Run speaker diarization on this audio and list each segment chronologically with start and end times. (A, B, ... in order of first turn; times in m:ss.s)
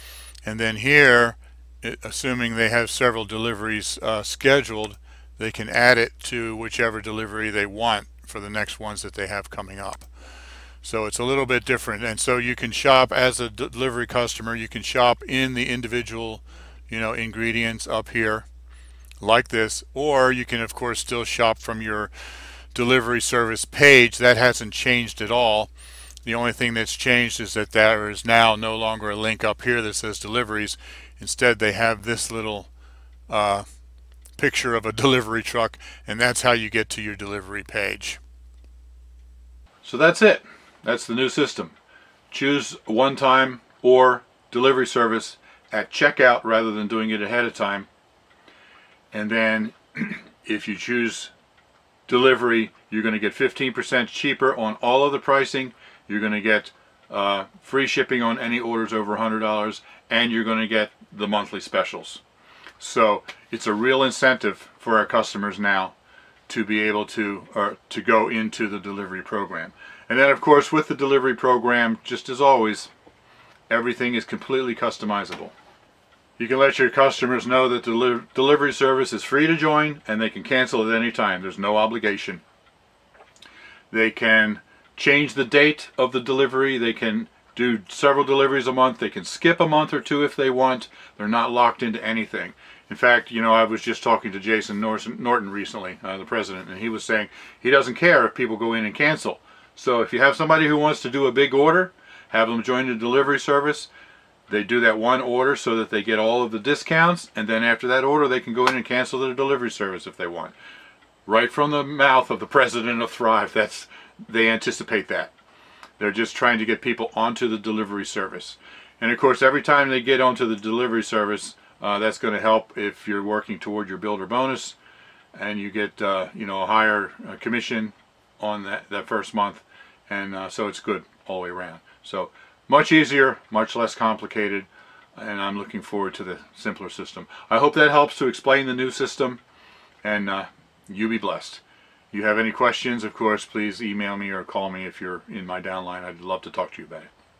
0:00.4-0:10.1 A
0:10.8-0:18.4 A
0:19.2-0:22.1 A
0:22.7-0:25.7 A
0:26.2-0:32.7 A
0:33.3-0:33.6 A
0:34.4-0:38.2 A
0:39.8-0:41.7 A
0:42.3-0:47.9 A
0:49.1-0:51.3 A
0:52.1-1:02.2 A
1:02.8-1:05.9 A
1:06.5-1:12.9 A
1:13.7-1:15.5 A
1:16.4-1:22.4 A
1:23.9-1:43.9 A
1:44.5-1:50.5 A
1:51.2-1:55.3 A
1:56.0-2:04.8 A
2:05.3-2:19.4 A
2:20.0-2:27.1 A